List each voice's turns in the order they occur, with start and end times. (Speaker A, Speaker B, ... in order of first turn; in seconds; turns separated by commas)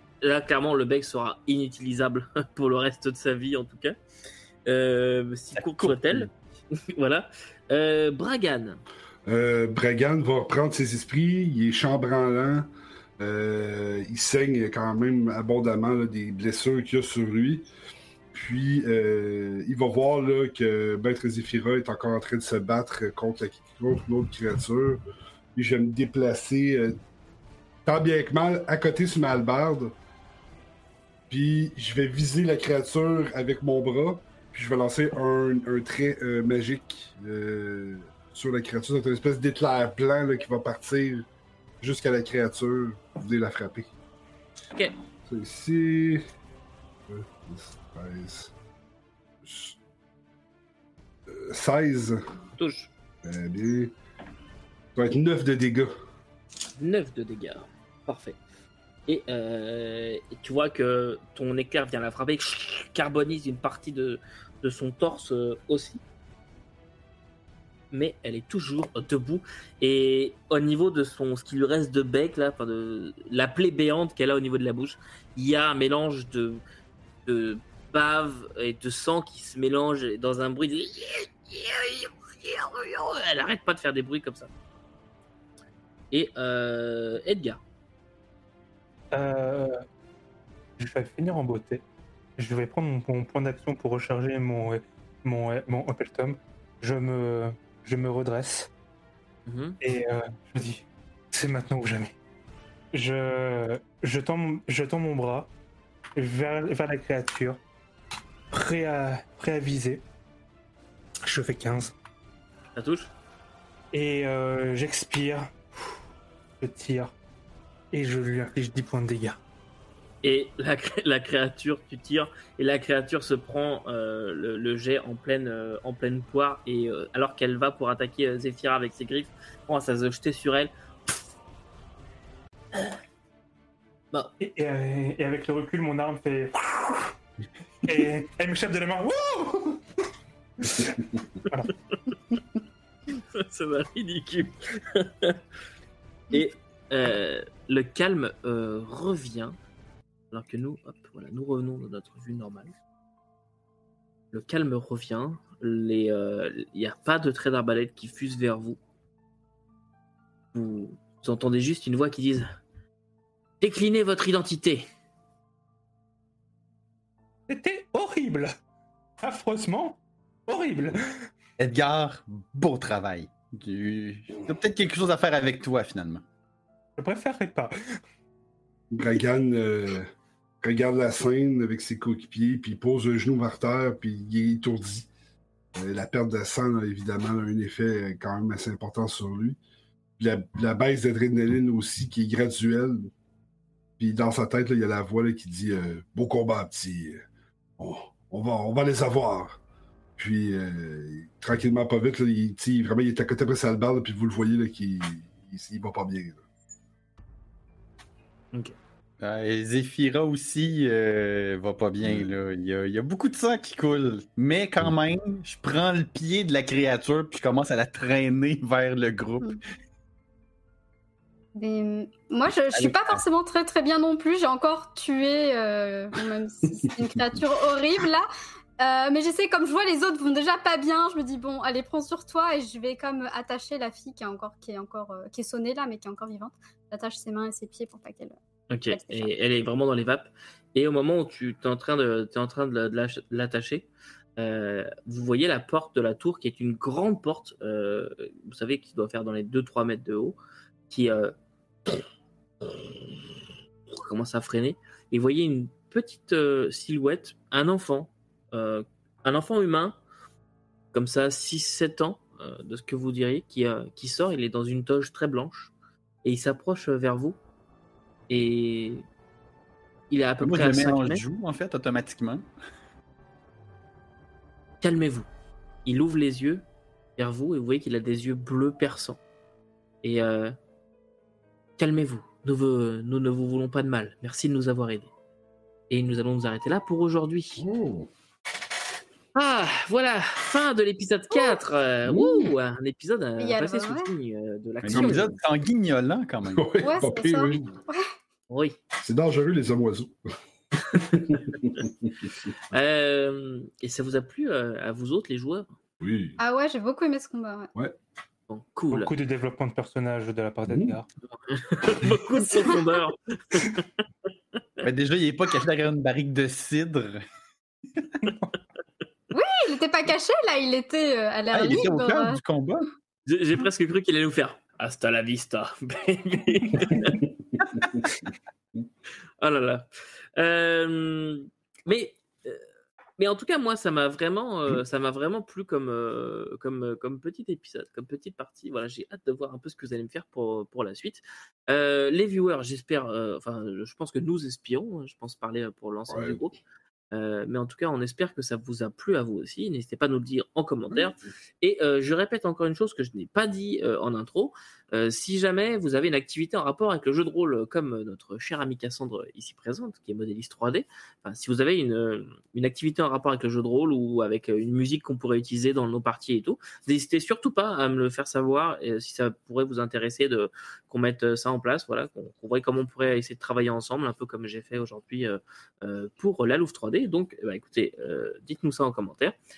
Speaker A: 0.2-3.9, Speaker A: 4.7-6.3, Speaker B: 5.5-6.3, Speaker A: 6.9-8.8, Speaker C: 9.2-12.7, Speaker C: 13.2-17.6, Speaker C: 18.3-25.0, Speaker C: 25.5-26.9, Speaker C: 27.8-29.9, Speaker C: 31.3-41.3, Speaker C: 41.8-43.9, Speaker C: 45.2-46.2, Speaker C: 47.1-48.5, Speaker C: 49.4-49.8, Speaker C: 51.3-52.2, Speaker A: 52.5-52.9, Speaker C: 53.2-53.9, Speaker C: 54.9-55.9, Speaker A: 56.8-58.4, Speaker A: 59.1-66.0, Speaker A: 67.9-76.6, Speaker A: 77.2-84.5, Speaker A: 86.1-87.6, Speaker D: 89.1-89.8, Speaker D: 90.8-91.8, Speaker D: 92.4-98.7, Speaker A: 99.5-99.8, Speaker D: 99.8-102.1, Speaker D: 102.9-105.5, Speaker D: 106.2-107.6, Speaker D: 108.5-110.0, Speaker D: 111.2-111.9, Speaker A: 112.8-113.1, Speaker D: 113.9-115.8, Speaker D: 116.6-117.1, Speaker D: 117.9-119.4, Speaker A: 120.2-130.7, Speaker D: 134.4-137.1, Speaker D: 137.8-139.8, Speaker D: 140.6-141.7, Speaker A: 143.1-145.4, Speaker A: 146.3-149.6, Speaker A: 150.3-152.7, Speaker A: 154.3-158.8, Speaker A: 160.5-162.4, Speaker A: 163.6-164.9, Speaker D: 167.5-168.5, Speaker D: 169.2-171.3, Speaker B: 171.6-176.2, Speaker D: 177.0-177.7, Speaker C: 178.9-180.1, Speaker C: 180.6-185.1, Speaker C: 185.7-189.6, Speaker C: 190.2-193.1, Speaker C: 194.0-197.2, Speaker C: 197.8-199.6, Speaker C: 200.2-206.4, Speaker B: 209.2-219.6, Speaker E: 221.6-228.3, Speaker B: 222.7-223.2, Speaker E: 228.8-238.3, Speaker A: 238.7-250.4, Speaker E: 238.9-239.3, Speaker A: 250.9-252.0, Speaker A: 253.9-260.0, Speaker A: 260.9-265.7, Speaker A: 266.2-267.4, Speaker A: 268.3-269.0, Speaker A: 270.1-271.2, Speaker B: 270.4-272.5, Speaker A: 274.8-275.3, Speaker A: 275.8-276.6, Speaker A: 277.2-279.2, Speaker A: 280.0-280.5, Speaker A: 281.8-285.1, Speaker A: 285.9-287.6, Speaker C: 287.6-288.1, Speaker A: 289.3-295.3, Speaker E: 291.3-291.6, Speaker E: 293.4-294.1, Speaker B: 294.8-296.7, Speaker C: 296.4-297.6, Speaker E: 296.8-298.0, Speaker A: 298.5-298.8, Speaker C: 299.0-300.2, Speaker A: 300.9-301.6, Speaker C: 300.9-302.3, Speaker A: 302.7-305.7, Speaker C: 306.0-306.4, Speaker E: 306.4-307.7, Speaker A: 308.5-309.1, Speaker D: 308.9-311.1, Speaker A: 311.4-313.8, Speaker B: 314.8-317.2, Speaker B: 318.0-318.2, Speaker E: 319.3-322.4, Speaker B: 321.5-322.9, Speaker A: 323.2-327.2, Speaker A: 329.4-329.9, Speaker A: 330.4-332.6, Speaker A: 333.2-346.6, Speaker C: 346.1-346.4, Speaker A: 347.1-379.4